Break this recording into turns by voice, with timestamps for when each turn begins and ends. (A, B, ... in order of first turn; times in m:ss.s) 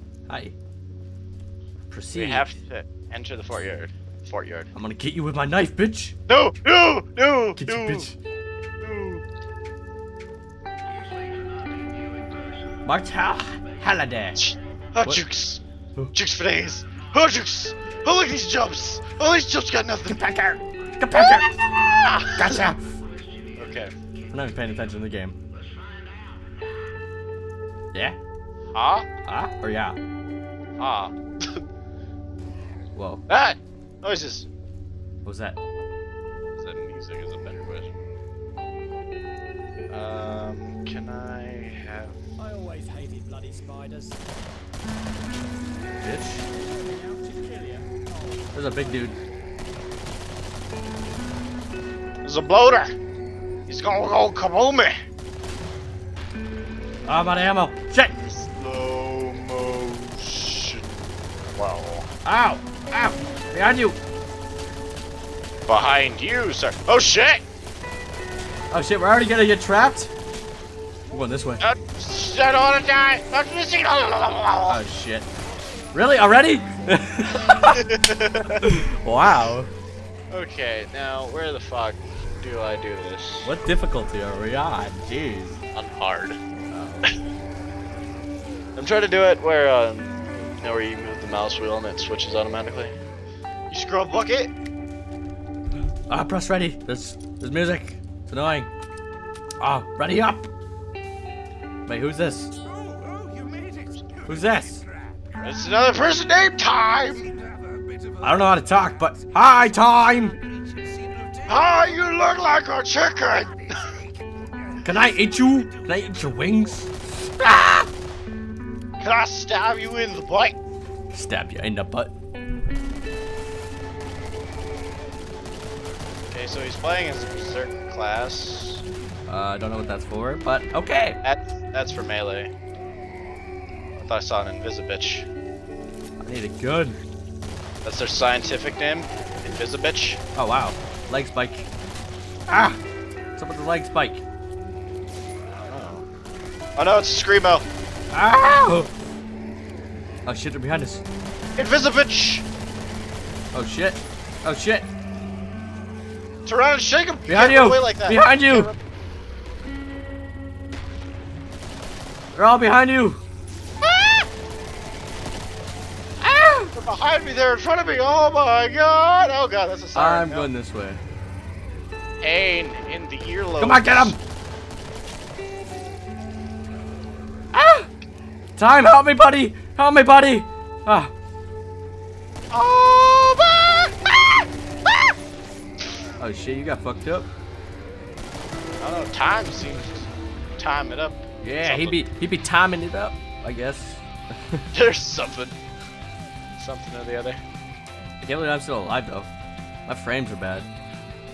0:00.3-0:00.5 A
0:01.9-0:02.6 A
0:02.1-0:04.7 B
0:04.7-0:06.1 A
0:06.3-0:08.1 B
0:07.6-0:08.1 A
0:08.8-0:09.2 B
0:12.8-0:14.4 A
0:14.4-0:15.6 B
0:16.1-0:20.3 B
0:20.1-0:22.9 A
0:21.1-0:22.6 B
0:23.6-0:23.9 B
0:24.3-0:25.4 A
0:28.7-0:29.1 B
0:29.3-0:30.0 A
0:30.8-0:31.6 B
0:32.9-0:33.2 A
0:33.3-0:34.5 B
0:35.2-0:35.6 A
0:36.6-0:38.0 B
0:39.9-0:42.2 B
0:42.4-0:44.2 C
0:46.0-0:46.4 A
0:46.7-0:48.0 C
0:48.5-0:49.2 A
0:52.2-0:52.9 B
0:53.7-0:55.0 B
0:57.0-0:58.1 A
0:58.2-1:02.1 B
1:02.2-1:04.0 A
1:05.7-1:07.4 B
1:08.7-1:10.1 A
1:11.1-1:11.6 A
1:11.6-1:14.8 B
1:14.7-1:15.2 A
1:15.9-1:17.9 A
1:17.7-1:18.6 B
1:18.5-1:19.7 A
1:20.3-1:23.5 B
1:23.4-1:25.6 A
1:25.7-1:26.4 B
1:26.7-1:27.0 A
1:28.8-1:32.9 B
1:33.7-1:34.5 B
1:36.1-1:38.7 A
1:39.6-1:40.5 A
1:41.8-1:42.5 A
1:44.2-1:44.8 A
1:45.4-1:47.3 B
1:48.2-1:50.4 A
1:51.4-1:54.0 B
1:54.8-1:57.9 A
1:59.0-2:00.6 B
2:01.1-2:02.1 A
2:06.3-2:08.8 B
2:09.3-2:11.2 A
2:11.2-2:12.5 B
2:14.0-2:15.3 B
2:16.2-2:17.0 A
2:17.8-2:20.2 B
2:20.4-2:21.7 A
2:22.5-2:22.8 A
2:23.4-2:24.2 A
2:25.5-2:26.0 B
2:26.8-2:27.6 B
2:28.1-2:28.9 A
2:30.2-2:31.0 A
2:31.6-2:32.4 B
2:33.5-2:34.9 A
2:36.4-2:38.8 B
2:37.3-2:38.7 A
2:42.3-2:43.2 A
2:43.8-2:44.3 B
2:46.2-2:46.7 A
2:46.7-2:50.5 B
2:49.9-2:51.0 A
2:52.2-2:54.1 B
2:53.6-2:54.2 A
2:57.5-2:57.9 A
2:58.6-3:01.1 A
3:02.5-3:04.4 B
3:06.2-3:07.3 A
3:08.8-3:12.0 B
3:11.4-3:14.6 A
3:14.7-3:15.6 B
3:16.6-3:17.4 B
3:18.2-3:19.3 A
3:19.9-3:20.7 A